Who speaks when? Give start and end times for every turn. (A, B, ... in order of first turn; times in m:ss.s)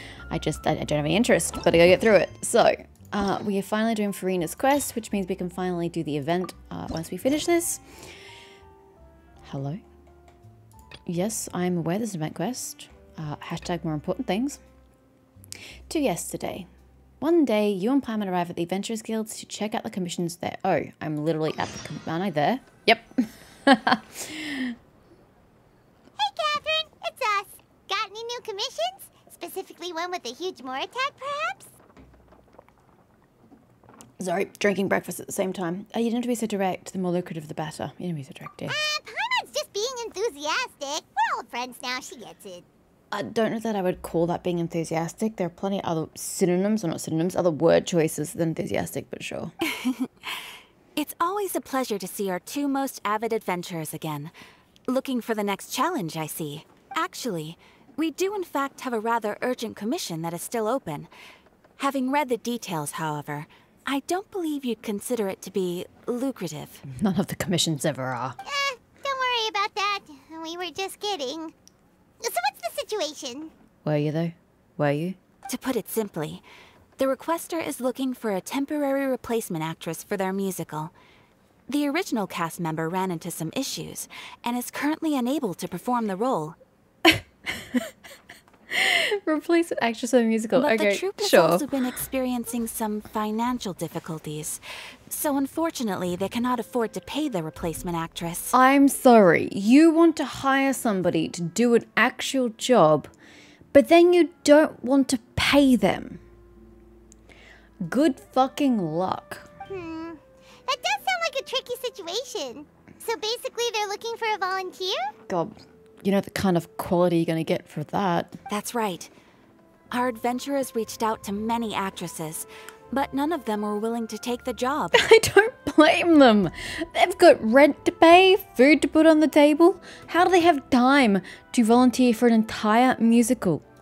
0:00.3-0:07.8 A
0:09.4-0:09.8 A
0:11.0-0:14.6 A
0:15.9-0:16.7 A
0:17.2-0:24.8 A
0:26.2-0:31.7 B
0:34.2-0:38.7 A
0:38.7-0:42.6 B
0:43.1-0:49.5 A
0:49.7-0:50.1 C
0:51.0-0:54.3 C
0:54.9-1:01.1 C
1:01.8-1:06.8 C
1:06.9-1:08.4 A
1:08.4-1:11.5 B
1:12.2-1:13.5 B
1:13.8-1:15.2 A
1:15.5-1:16.4 C
1:17.0-1:20.9 C
1:21.7-1:26.6 C
1:27.1-1:27.8 A
1:28.7-1:31.7 A
1:30.5-1:38.5 C
1:38.5-1:43.1 A
1:43.7-1:46.2 A
1:47.8-1:49.5 A
1:49.7-1:55.1 B
1:55.3-1:58.4 A
1:58.5-1:59.1 C
1:59.9-2:05.0 C
2:04.9-2:13.6 A